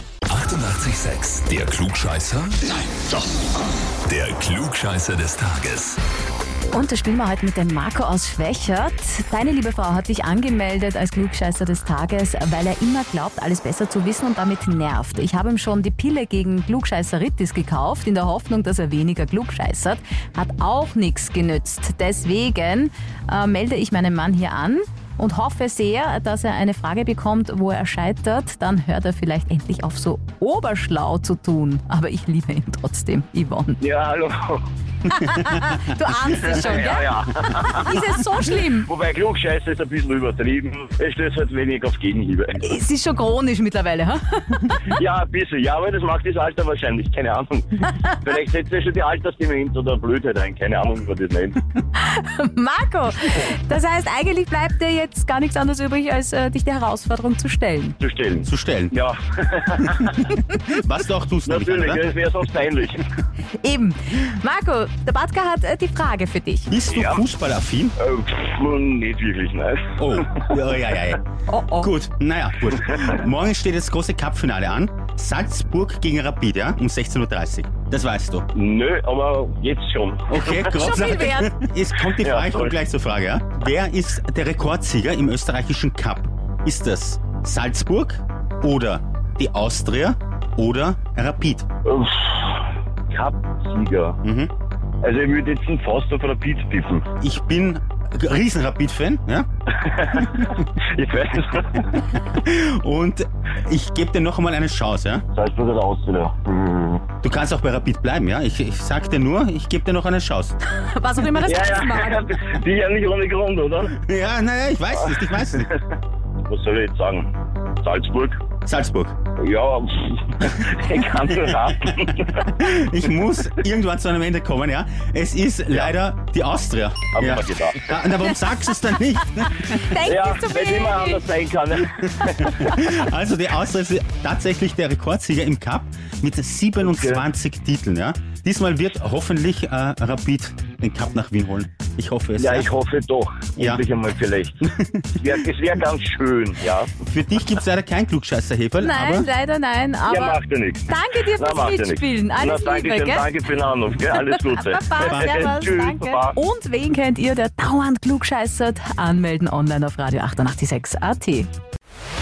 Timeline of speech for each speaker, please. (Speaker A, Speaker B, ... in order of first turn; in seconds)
Speaker A: 0.3-2.7, 4.0-6.0
Speaker B: 6.7-33.8, 35.0-38.9, 42.6-45.0, 52.0-58.0, 63.6-66.7, 71.5-71.9, 80.7-81.5, 110.8-112.2, 129.6-131.3, 148.8-153.3, 154.1-161.5
Speaker C: 33.8-34.6, 36.4-42.6, 44.9-51.6, 58.0-60.4, 61.5-63.1, 66.9-67.2, 68.0-70.5, 72.8-73.2, 78.5-80.9, 82.1-82.8, 91.8-94.2, 95.0-97.1, 99.7-102.1, 105.3-107.1, 111.4-113.9, 115.0-115.8, 116.5-118.4, 119.4-122.7, 127.1-128.0, 130.0-132.9, 136.8-137.2, 142.4-144.7, 145.2-146.9, 150.1-156.4
Speaker D: 58.4-59.0, 60.5-62.0, 66.7-68.0, 70.0-71.2, 71.8-78.5, 80.3-91.7, 94.2-94.5, 97.2-99.5, 102.1-105.2, 107.2-110.6, 113.9-115.7, 118.7-119.2, 122.3-129.9, 132.2-142.7, 143.6-143.8, 144.6-145.3, 147.0-149.3, 155.0-155.6